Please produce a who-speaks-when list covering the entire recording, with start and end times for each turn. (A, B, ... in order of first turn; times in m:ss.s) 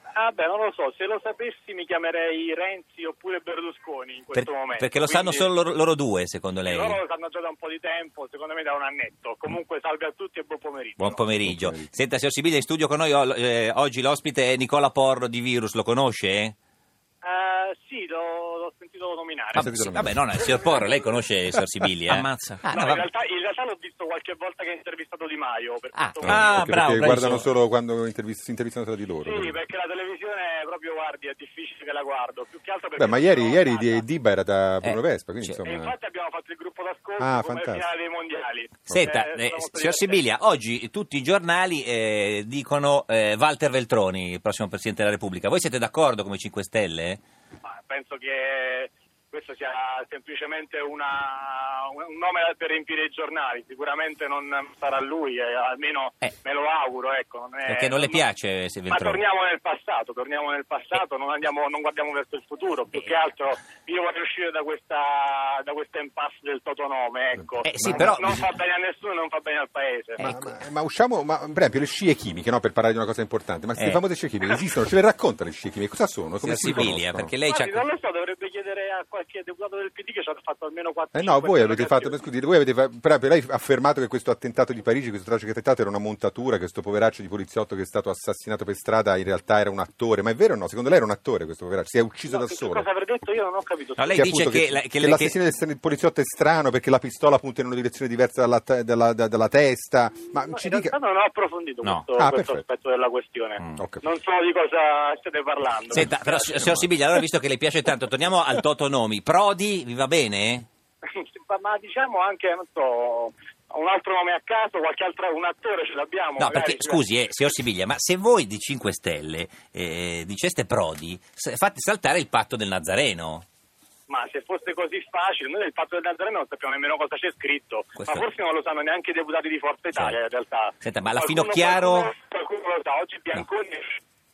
0:00.2-0:05.5 A
0:04.3-0:07.0 B
0:06.7-0:11.2 A
0:11.0-0:16.5 B
0:11.4-0:11.9 C
0:17.2-0:19.7 A
0:19.6-0:22.2 B
0:19.6-0:20.5 C
0:22.1-0:23.0 D
0:22.7-0:26.6 A
0:26.0-0:27.4 D
0:26.2-0:29.6 C
0:29.2-0:34.0 A
0:33.0-0:35.9 C
0:34.8-0:35.6 B
0:35.6-0:40.2 A
0:37.2-0:37.8 C
0:38.9-0:47.2 B
0:47.6-0:58.2 A
0:57.6-0:59.2 B
0:58.9-1:10.3 A
1:07.6-1:08.6 B
1:10.2-1:17.3 C
1:16.4-1:17.8 B
1:17.5-1:22.2 A
1:21.1-1:32.9 C
1:32.3-1:34.2 A
1:34.0-1:35.4 B
1:34.1-1:40.9 C
1:40.5-1:46.7 A
1:42.2-1:42.6 C
1:43.8-1:44.0 C
1:45.9-1:50.6 B
1:51.0-1:57.0 A
1:56.4-2:03.4 B
2:04.1-2:13.9 A
2:08.0-2:08.2 B
2:10.8-2:12.1 B